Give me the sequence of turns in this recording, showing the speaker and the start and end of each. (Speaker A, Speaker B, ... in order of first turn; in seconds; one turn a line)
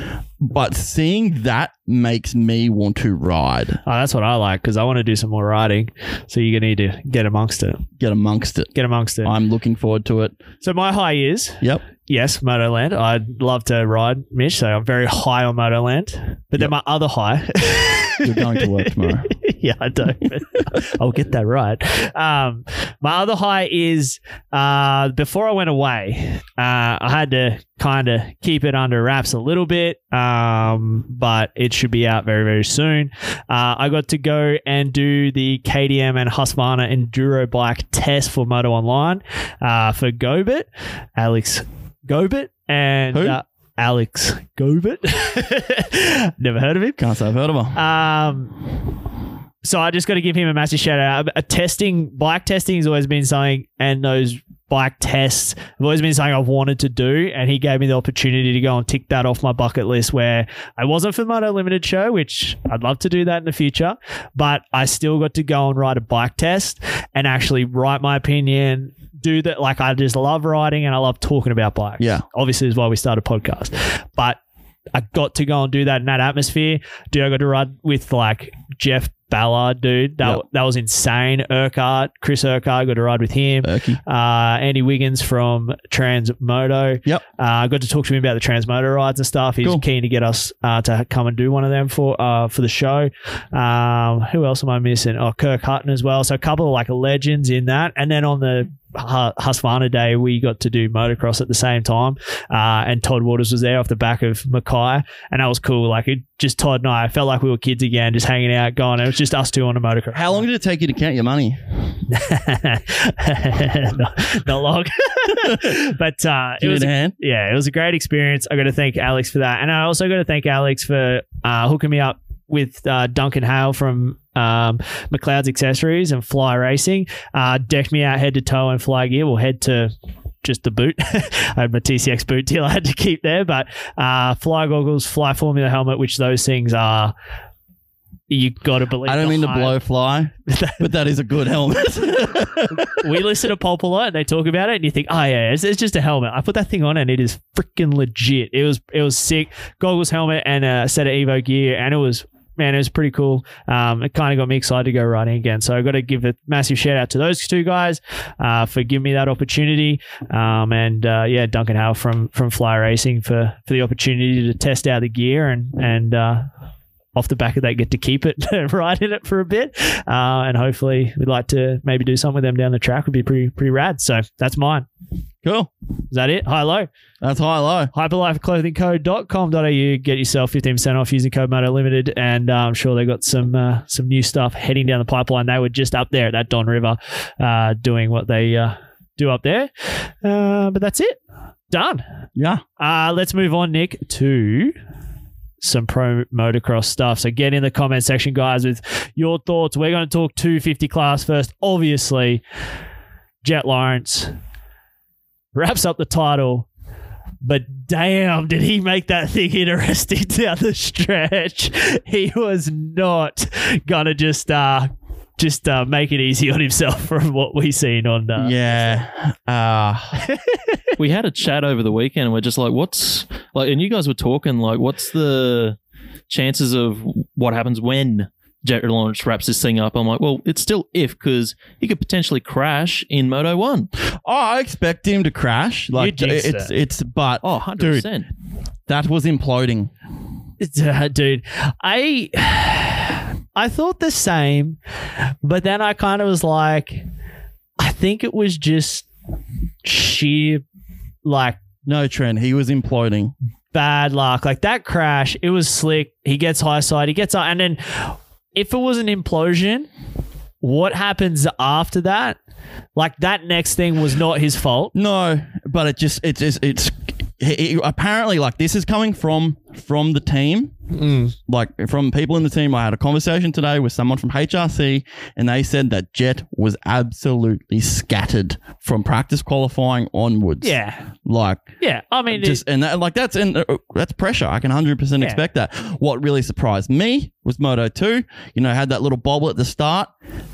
Speaker A: 0.4-3.8
Speaker B: 3.9-7.8
Speaker A: 8.0-10.4
Speaker B: 8.7-9.3
Speaker B: 10.6-47.0
Speaker A: 18.2-19.3
Speaker A: 43.1-43.4
Speaker A: 47.0-47.8
Speaker B: 47.7-48.6
Speaker B: 49.6-74.4
Speaker A: 72.0-72.2
Speaker B: 74.9-110.4
Speaker A: 83.6-84.0
Speaker A: 110.1-111.6
Speaker B: 112.1-129.9
Speaker A: 115.4-115.7
Speaker A: 116.6-117.1
Speaker B: 130.4-137.1
Speaker B: 138.3-139.8
Speaker A: 139.0-143.1
Speaker B: 140.5-140.8
Speaker B: 142.7-166.4
Speaker B: 167.1-174.8
Speaker A: 175.4-175.7
Speaker B: 176.1-176.9
Speaker A: 177.2-177.9
Speaker B: 177.9-191.2
Speaker B: 191.7-192.0
Speaker A: 192.3-192.6
Speaker B: 192.8-194.7
Speaker B: 195.6-202.4
Speaker B: 203.4-204.3
Speaker B: 205.5-206.7
Speaker B: 207.4-218.9
Speaker A: 218.4-220.2
Speaker B: 220.3-220.8
Speaker C: 221.0-225.8
Speaker C: 226.3-233.9
Speaker A: 234.2-238.1
Speaker B: 235.9-236.7
Speaker C: 237.4-238.3
Speaker A: 238.9-239.9
Speaker B: 240.6-244.8
Speaker B: 245.4-247.0
Speaker B: 247.8-249.1
Speaker B: 249.8-250.6
Speaker B: 251.2-251.6
Speaker A: 251.8-253.3
Speaker B: 253.7-259.9
Speaker B: 260.6-262.4
Speaker B: 262.9-264.9
Speaker A: 264.9-270.7
Speaker B: 270.9-271.3
Speaker A: 271.5-281.7
Speaker B: 280.6-281.1
Speaker B: 281.8-282.6
Speaker A: 282.3-290.1